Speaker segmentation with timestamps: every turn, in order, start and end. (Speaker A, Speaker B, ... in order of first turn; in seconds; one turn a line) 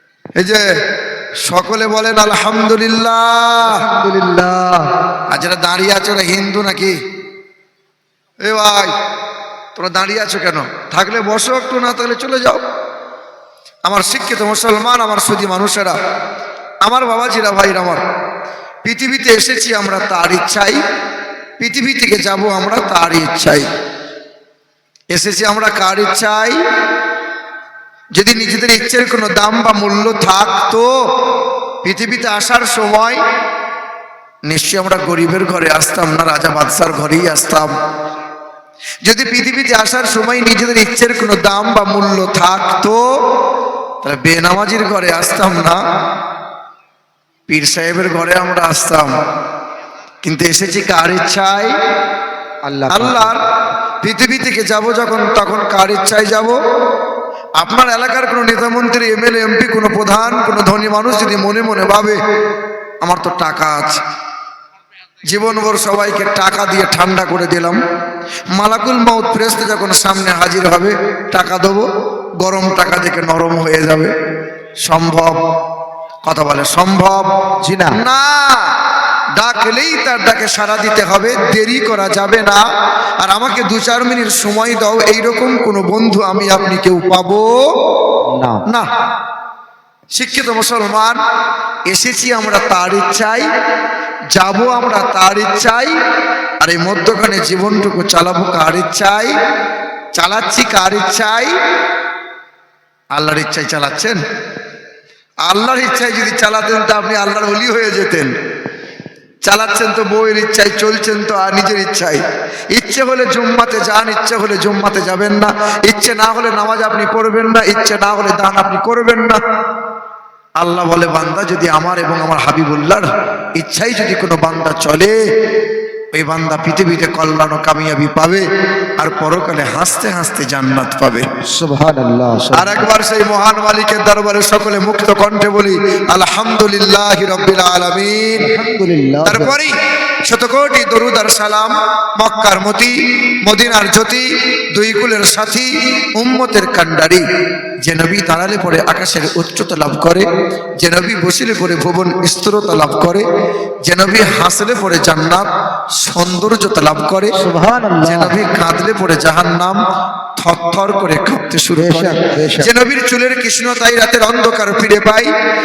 Speaker A: 0.4-0.7
Speaker A: 1.4-3.8
Speaker B: 3.6-4.9
Speaker A: 5.3-7.0
Speaker A: 8.4-8.9
Speaker A: 9.8-12.6
Speaker A: 13.9-16.0
Speaker A: 16.9-18.0
Speaker A: 18.9-20.8
Speaker A: 21.6-23.7
Speaker A: 25.1-26.6
Speaker A: 28.1-30.9
Speaker A: 31.8-33.2
Speaker A: 34.5-37.7
Speaker A: 39.0-43.0
Speaker A: 44.0-45.8
Speaker A: 47.5-49.1
Speaker A: 50.2-51.8
Speaker B: 52.6-53.3
Speaker A: 52.9-53.4
Speaker A: 54.0-56.6
Speaker A: 57.6-62.2
Speaker A: 63.0-64.0
Speaker A: 65.3-67.8
Speaker A: 68.5-71.9
Speaker A: 72.4-74.1
Speaker A: 74.8-75.4
Speaker A: 76.3-77.3
Speaker B: 77.6-78.0
Speaker A: 77.9-78.7
Speaker A: 79.4-82.6
Speaker A: 83.2-87.6
Speaker B: 88.3-88.6
Speaker A: 90.1-91.2
Speaker A: 91.9-93.5
Speaker A: 94.3-95.9
Speaker A: 96.6-99.3
Speaker A: 100.2-101.5
Speaker A: 103.2-104.2
Speaker A: 105.5-108.3
Speaker A: 109.4-112.2
Speaker A: 112.7-119.4
Speaker A: 120.6-123.1
Speaker A: 123.6-125.2
Speaker A: 126.1-128.4
Speaker A: 129.0-131.2
Speaker B: 131.4-132.9
Speaker A: 132.5-138.5
Speaker B: 138.4-139.6
Speaker A: 139.2-139.8
Speaker A: 140.3-147.2
Speaker A: 147.8-153.3
Speaker A: 153.8-155.5
Speaker A: 156.0-157.3
Speaker B: 157.3-158.3
Speaker A: 158.0-159.8
Speaker A: 160.4-165.3
Speaker B: 161.8-162.7